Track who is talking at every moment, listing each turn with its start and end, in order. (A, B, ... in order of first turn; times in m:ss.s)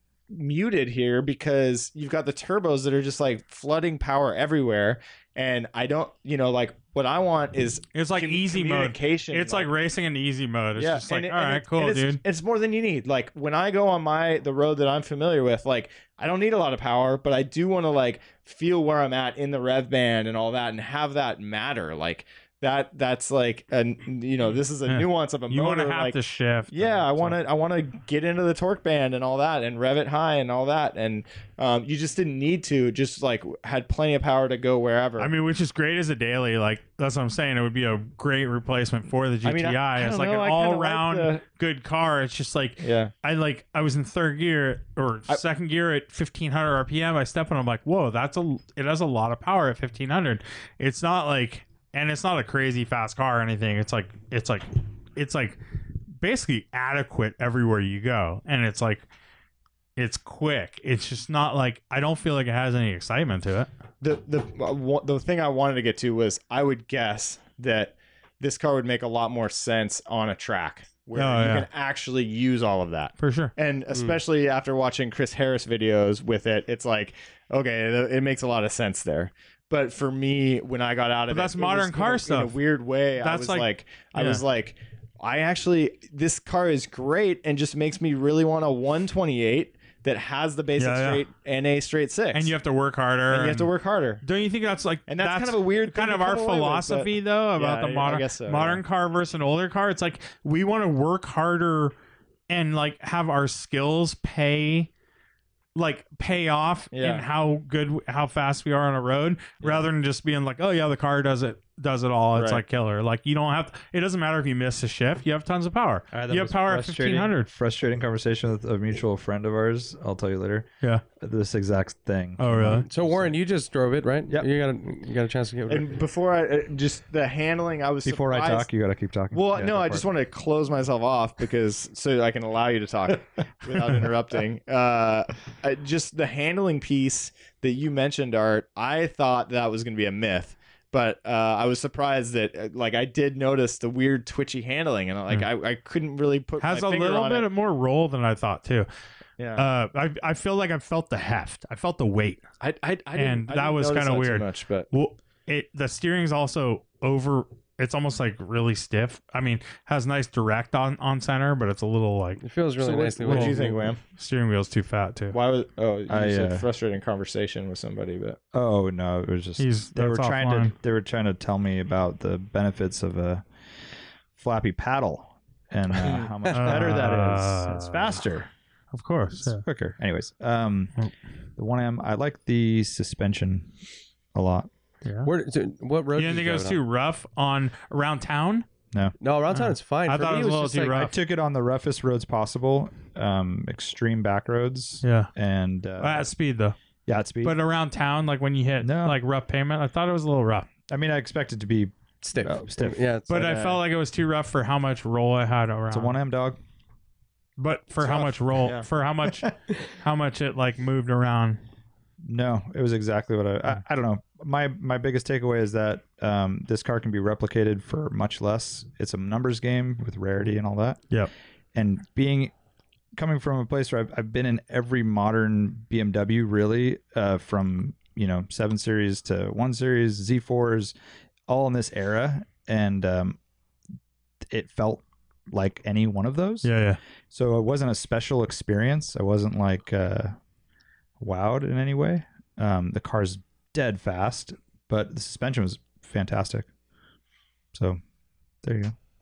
0:00.3-0:09.7 A
0:07.9-0:12.2 B
0:10.8-0:26.2 A
0:24.9-0:27.4 B
0:26.7-0:35.3 A
0:35.2-0:55.6 B
0:39.4-0:41.4 A
0:42.8-0:43.1 A
0:56.2-0:59.0 B
1:00.0-1:03.7 B
1:04.0-1:32.5 A
1:11.1-1:11.7 B
1:13.2-1:13.5 B
1:13.9-1:14.2 C
1:21.3-1:22.6 B
1:23.2-1:24.4 B
1:30.8-1:31.2 B
1:32.3-1:33.7 B
1:33.3-1:34.2 A
1:34.2-1:41.9 B
1:35.1-1:38.8 A
1:42.5-1:44.9 B
1:45.8-1:57.5 B
1:46.9-1:47.2 A
1:52.3-1:52.6 A
1:56.1-2:00.7 D
2:01.2-2:03.4 D
2:02.4-2:02.8 B
2:02.7-2:06.0 C
2:05.7-2:08.7 A
2:08.0-2:10.1 D
2:09.3-2:27.5 A
2:26.6-2:28.9 B
2:29.4-2:29.6 A
2:29.6-2:32.4 B
2:32.6-2:34.9 A
2:33.2-2:42.4 B
2:42.4-2:43.9 C
2:42.8-2:44.0 A
2:43.2-2:45.4 B
2:45.3-2:48.4 A
2:46.1-2:46.6 D
2:48.5-2:53.4 D
2:49.6-2:50.7 B
2:54.4-2:58.5 D
2:56.0-2:56.8 A
2:56.5-2:58.2 B
2:58.9-2:59.6 B
2:59.4-3:00.9 D
3:01.6-3:03.7 D
3:04.3-3:04.7 D
3:05.0-3:05.3 B
3:05.2-3:06.8 C
3:06.2-3:08.7 B
3:09.2-3:11.0 C
3:09.5-3:11.1 B
3:10.9-3:16.3 D
3:15.0-3:15.3 B
3:16.0-3:16.7 B
3:17.1-3:17.5 D
3:17.4-3:20.7 B
3:18.8-3:19.2 D
3:20.9-3:23.0 D
3:22.2-3:23.8 C
3:23.3-3:26.2 B
3:25.9-3:26.6 D
3:27.6-3:31.6 B
3:28.0-3:28.8 A
3:32.2-3:41.0 D
3:41.7-3:42.5 D
3:43.2-3:50.9 D
3:51.5-3:53.4 D
3:54.5-3:56.7 D
3:56.6-3:57.0 B
3:57.3-4:00.4 D
4:01.2-4:06.7 D
4:07.7-4:08.0 D
4:08.6-4:08.9 D